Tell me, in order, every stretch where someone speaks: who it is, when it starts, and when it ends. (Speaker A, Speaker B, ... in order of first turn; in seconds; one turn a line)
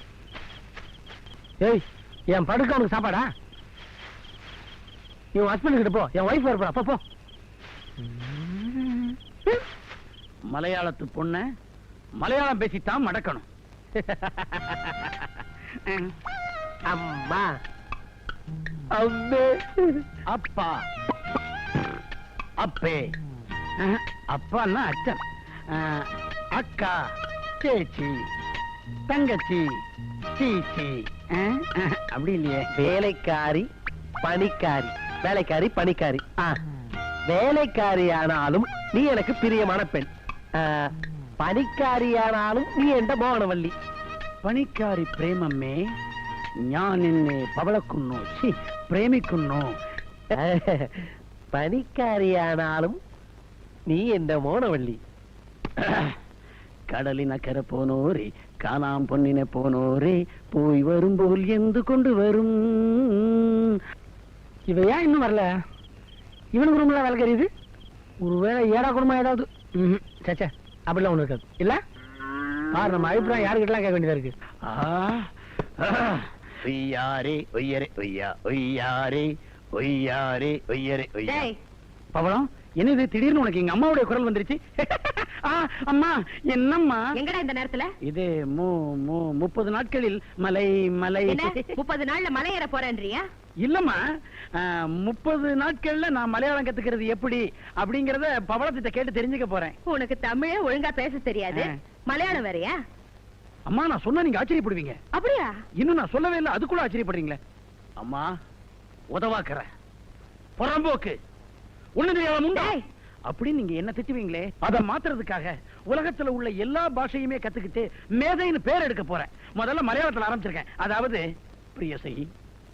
Speaker A: 1.6-3.3
Speaker A: 5.3-7.0
Speaker B: 8.1-9.1
Speaker C: 10.5-11.4
Speaker C: 12.2-13.4
Speaker C: 15.8-16.1
Speaker B: 16.9-17.5
Speaker B: 18.9-20.0
Speaker C: 20.3-20.8
Speaker C: 22.6-23.0
Speaker C: 23.8-25.2
Speaker C: 25.7-27.0
Speaker C: 27.6-28.2
Speaker C: 29.1-29.6
Speaker C: 30.4-32.7
Speaker B: 32.7-33.7
Speaker B: 34.2-36.6
Speaker B: 37.3-43.7
Speaker C: 44.4-45.8
Speaker C: 46.6-49.8
Speaker B: 50.3-53.0
Speaker B: 53.9-55.0
Speaker C: 55.8-56.2
Speaker C: 56.9-63.8
Speaker A: 64.7-65.5
Speaker A: 66.5-67.5
Speaker A: 68.2-71.8
Speaker A: 72.7-74.3
Speaker C: 74.7-81.5
Speaker D: 81.2-81.5
Speaker C: 82.1-87.0
Speaker D: 87.2-87.9
Speaker C: 88.0-91.5
Speaker D: 91.3-93.2
Speaker C: 93.6-94.0
Speaker C: 94.5-99.7
Speaker D: 99.9-102.8
Speaker C: 103.7-105.0
Speaker D: 105.1-105.5
Speaker C: 105.8-107.4
Speaker C: 108.0-108.3
Speaker C: 109.1-109.7
Speaker C: 110.6-111.2
Speaker C: 112.0-112.8
Speaker D: 112.5-112.8
Speaker C: 113.3-121.2
Speaker C: 121.8-122.3